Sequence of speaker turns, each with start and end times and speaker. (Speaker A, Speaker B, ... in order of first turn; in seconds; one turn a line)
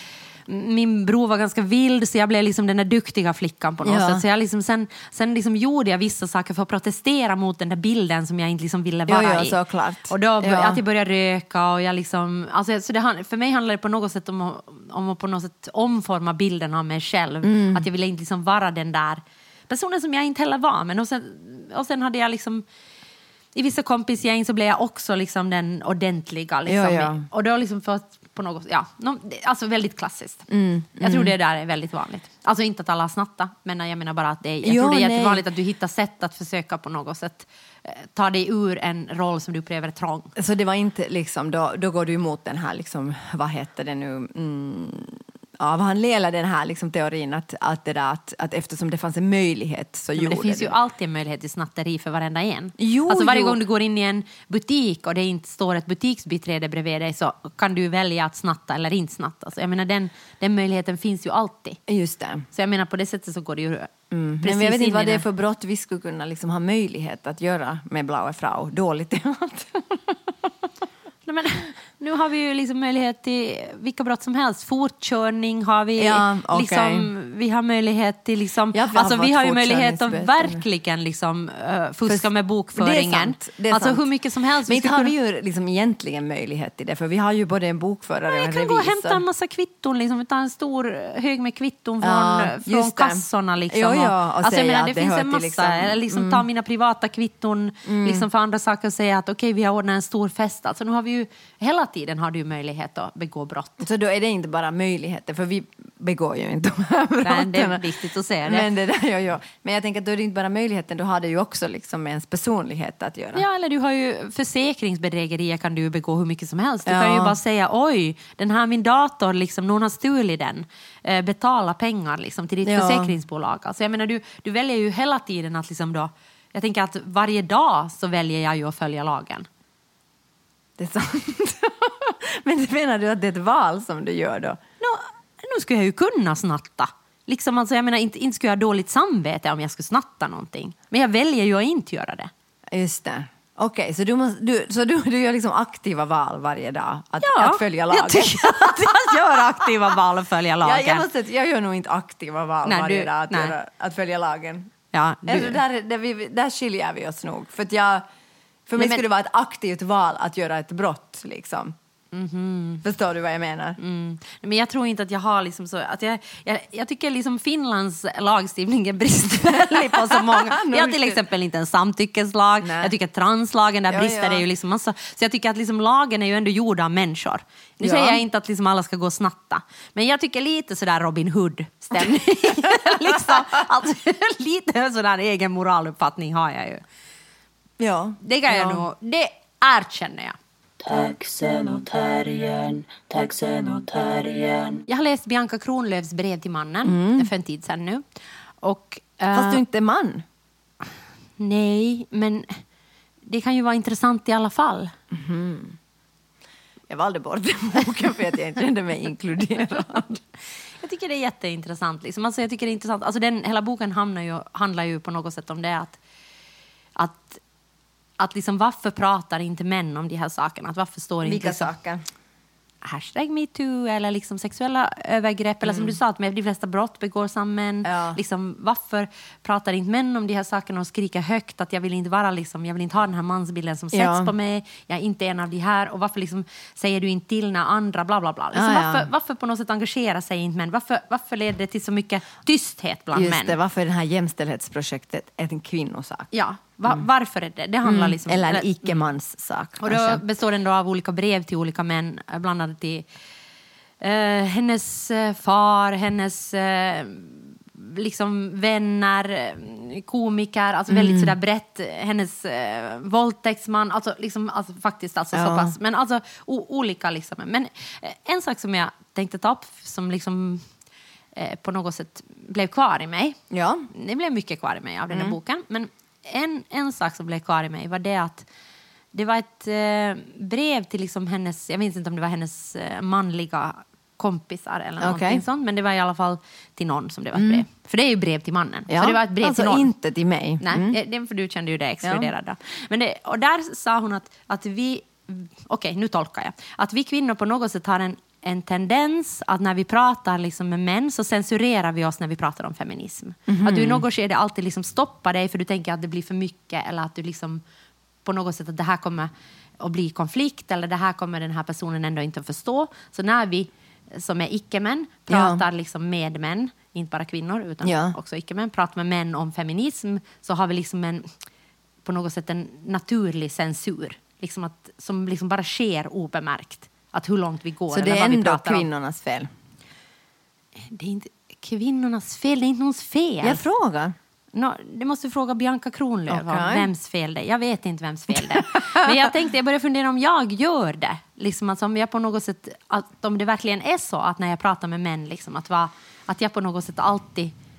Speaker A: 0.5-22.6
Speaker B: 3.8-4.2
Speaker B: 9.1-10.8
Speaker B: 17.4-17.9
Speaker A: 23.5-30.5
Speaker B: 26.6-27.2
Speaker B: 30.5-31.3
Speaker A: 31.0-40.3
Speaker B: 34.6-35.4
Speaker B: 40.4-50.7
Speaker A: 50.1-61.8
Speaker B: 52.8-53.6
Speaker B: 61.9-62.5
Speaker A: 62.5-65.2
Speaker B: 64.1-70.5
Speaker A: 71.2-85.1
Speaker B: 76.0-77.1
Speaker B: 78.7-80.6
Speaker B: 82.1-84.0
Speaker B: 84.7-89.2
Speaker A: 88.3-103.8
Speaker B: 92.0-96.5
Speaker B: 97.8-98.3
Speaker B: 103.8-107.8
Speaker A: 107.2-108.7
Speaker B: 108.4-113.4
Speaker A: 113.3-129.5
Speaker B: 116.8-117.3
Speaker B: 122.6-123.1
Speaker B: 130.8-134.6
Speaker A: 134.8-142.3
Speaker B: 142.7-149.9
Speaker A: 147.2-151.1
Speaker B: 150.6-154.7
Speaker A: 152.6-153.5
Speaker A: 154.9-155.6
Speaker B: 155.3-158.0
Speaker B: 158.7-161.8
Speaker A: 158.8-159.0
Speaker A: 162.1-162.8
Speaker B: 162.8-163.8
Speaker A: 163.8-186.8
Speaker B: 169.4-171.2
Speaker B: 172.6-172.9
Speaker B: 173.9-174.4
Speaker B: 177.8-178.2
Speaker B: 182.7-183.6
Speaker B: 187.8-188.8
Speaker A: 188.2-190.3
Speaker C: 190.8-194.8
Speaker A: 194.9-198.0
Speaker B: 196.8-197.3
Speaker A: 198.6-199.6
Speaker B: 199.3-200.2
Speaker A: 201.4-202.6
Speaker A: 203.3-204.9
Speaker B: 205.1-205.8
Speaker B: 206.9-210.2
Speaker A: 210.8-216.0
Speaker A: 216.9-217.4
Speaker A: 218.2-221.7
Speaker B: 221.2-222.0
Speaker A: 222.8-243.6
Speaker B: 225.6-225.9
Speaker B: 227.8-228.2
Speaker B: 233.9-234.3
Speaker B: 238.5-239.1
Speaker B: 243.1-246.3
Speaker A: 246.3-249.0
Speaker B: 247.8-250.2
Speaker A: 249.8-253.1
Speaker A: 254.0-270.7
Speaker B: 260.9-261.3
Speaker B: 265.3-265.7
Speaker A: 271.3-273.4
Speaker B: 273.5-273.9
Speaker A: 273.9-278.5
Speaker B: 275.1-275.4
Speaker A: 279.1-289.9
Speaker B: 285.0-285.4
Speaker B: 287.3-287.6
Speaker B: 288.9-291.0
Speaker A: 290.6-307.6
Speaker B: 292.0-292.3
Speaker B: 303.5-304.0
Speaker A: 308.2-321.3
Speaker B: 315.3-315.6
Speaker B: 317.8-318.2
Speaker A: 322.0-328.9
Speaker B: 327.9-329.5
Speaker A: 330.8-333.6
Speaker B: 333.4-334.1
Speaker A: 334.5-347.5
Speaker B: 336.3-336.9
Speaker B: 338.8-339.2